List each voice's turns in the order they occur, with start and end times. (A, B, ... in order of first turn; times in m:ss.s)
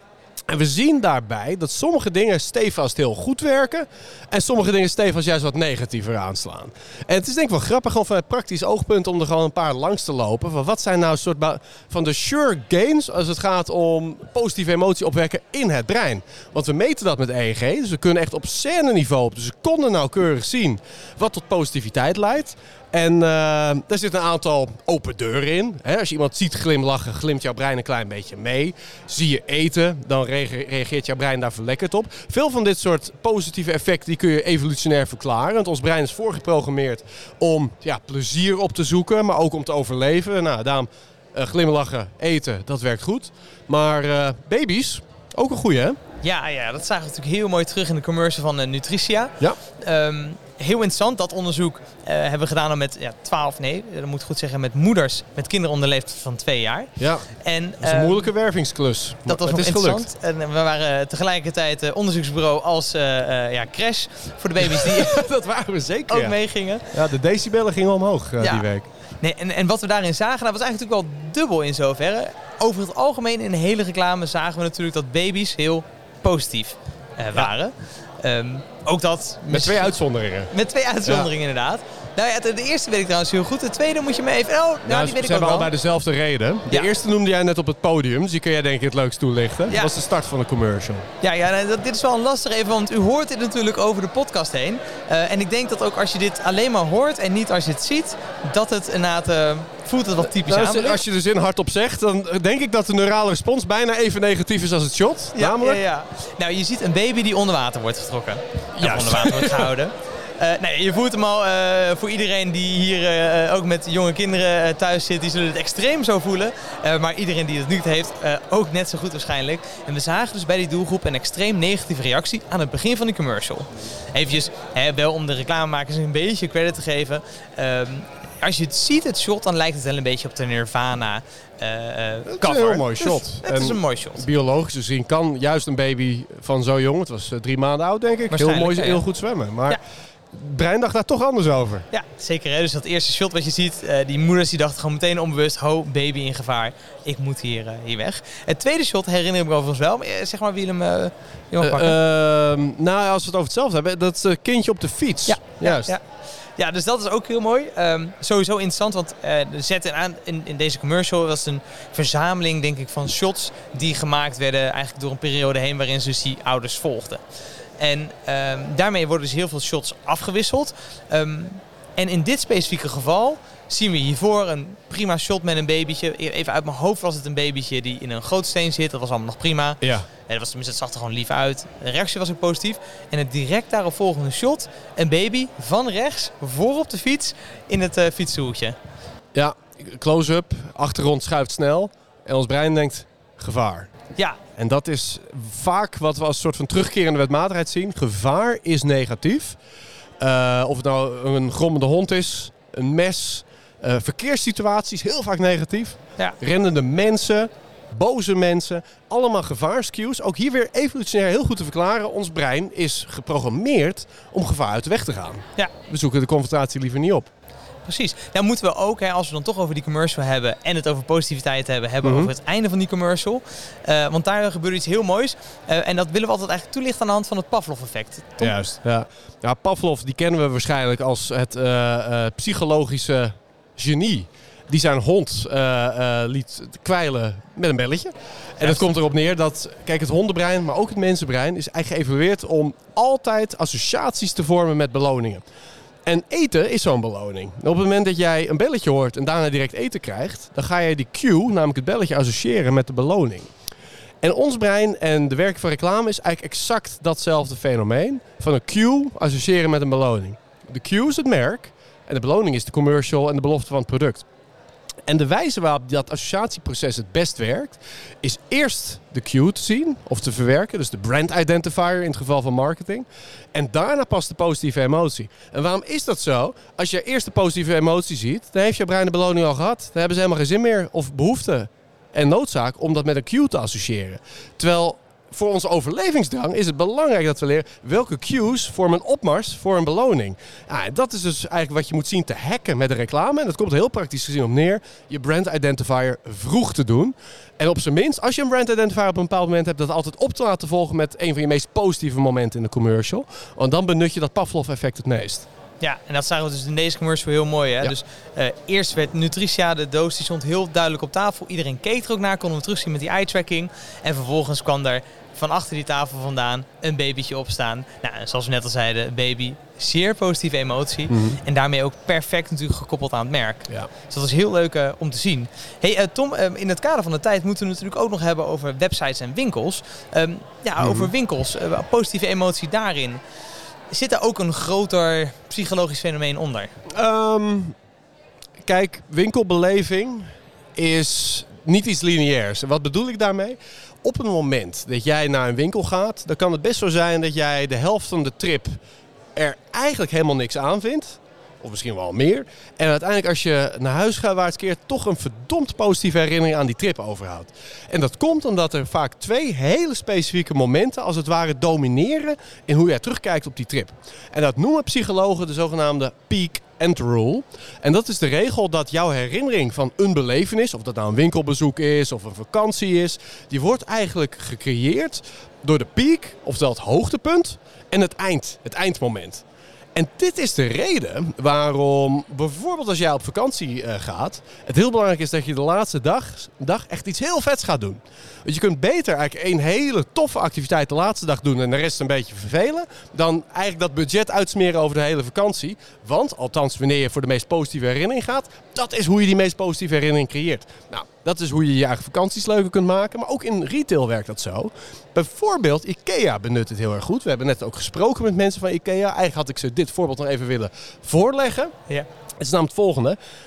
0:00.5-0:46.0 A
0:46.2-0:58.3 B
0:57.0-0:57.3 A
0:57.8-1:00.0 A
0:59.3-1:05.2 B
1:04.6-1:06.4 A
1:06.1-1:07.0 B
1:06.9-1:08.9 A
1:08.4-1:08.6 B
1:09.2-1:19.9 B
1:19.5-1:20.5 A
1:20.5-1:25.7 B
1:21.0-1:21.3 A
1:24.8-1:31.1 A
1:31.2-1:41.0 B
1:40.2-1:45.8 A
1:45.4-2:14.2 B
1:48.8-1:49.7 A
2:12.3-2:19.8 A
2:18.3-2:19.0 B
2:20.3-2:21.9 A
2:21.9-2:32.0 B
2:31.6-2:35.9 A
2:35.3-2:36.0 B
2:36.6-2:47.2 B
2:47.8-3:08.8 B
2:59.8-3:00.1 A
3:09.3-3:13.9 A
3:14.1-3:14.4 B
3:14.6-3:19.6 A
3:20.2-3:37.3 A
3:37.8-3:48.6 B
3:42.0-3:42.3 A
3:48.4-4:05.4 A
3:58.6-3:58.9 B
4:06.0-4:13.5 A
4:14.2-4:24.2 A
4:25.1-5:05.4 A
5:05.8-5:33.2 B
5:21.1-5:21.4 A
5:30.8-5:31.1 A
5:33.9-5:36.7 B
5:36.9-5:37.7 A
5:38.6-5:48.8 A
5:49.4-6:19.4 A
6:19.9-6:51.7 A
6:52.4-6:53.2 A